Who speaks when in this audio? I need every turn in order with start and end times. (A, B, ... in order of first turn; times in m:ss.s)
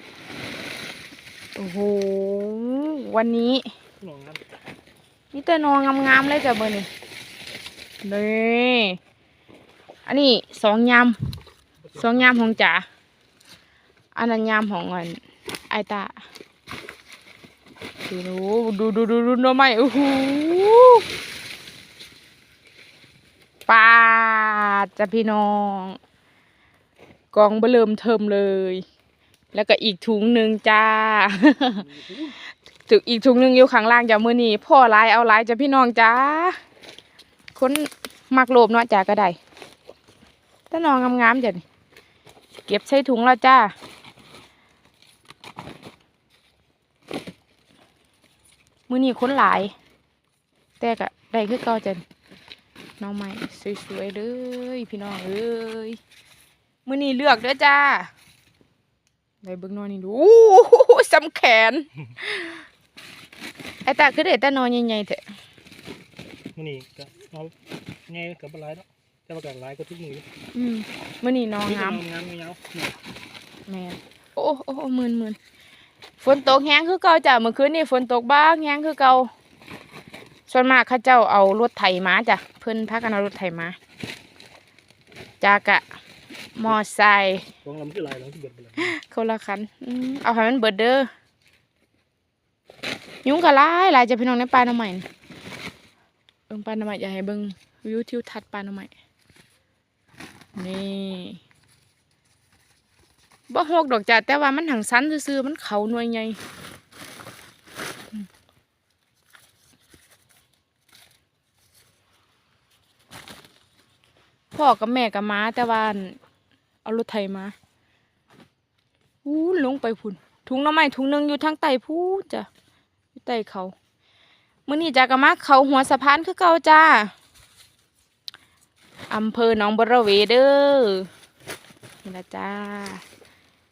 0:01.6-0:03.7 A
0:04.0-0:04.4 B
0:05.3-0:06.9 A
0:08.0-0:09.0 A
0:10.1-0:11.2 A
0:11.8-0:12.6 B
0:12.0-0:12.8 A
0:14.2-0:15.2 A
0:15.7-0:16.2 A
0:18.1-0:21.0 A
0:23.7-0:26.0 A
0:27.3-0:28.8 A
0:29.5-0:31.8 A
0:31.8-0:32.2 B
0:32.9-0:36.6 A
0:37.6-0:39.4 A
0:40.7-0:41.6 A
0:42.7-0:43.7 A
0:48.9-0:49.7 A
0:50.8-0:52.0 A
0:53.0-0:56.0 A
0:56.8-0:58.1 A
0:59.4-1:02.6 A
1:03.8-1:05.2 A
1:06.6-1:07.5 B
1:08.1-1:10.3 B
1:10.5-1:12.0 A
1:11.7-1:13.0 B
1:13.7-1:15.4 A
1:16.2-1:19.3 A
1:20.5-1:23.8 A
1:25.4-1:25.8 A
1:26.6-1:27.4 A
1:27.6-1:28.9 B
1:28.8-1:31.1 A
1:33.2-1:35.1 A
1:36.5-1:38.9 A
1:40.6-1:41.4 A
1:43.5-1:46.4 A
1:54.5-1:56.2 A
1:56.8-1:57.5 A
1:59.2-2:02.5 A
2:03.2-2:03.7 A
2:04.7-2:07.1 A
2:09.1-2:11.1 A
2:12.0-2:13.0 A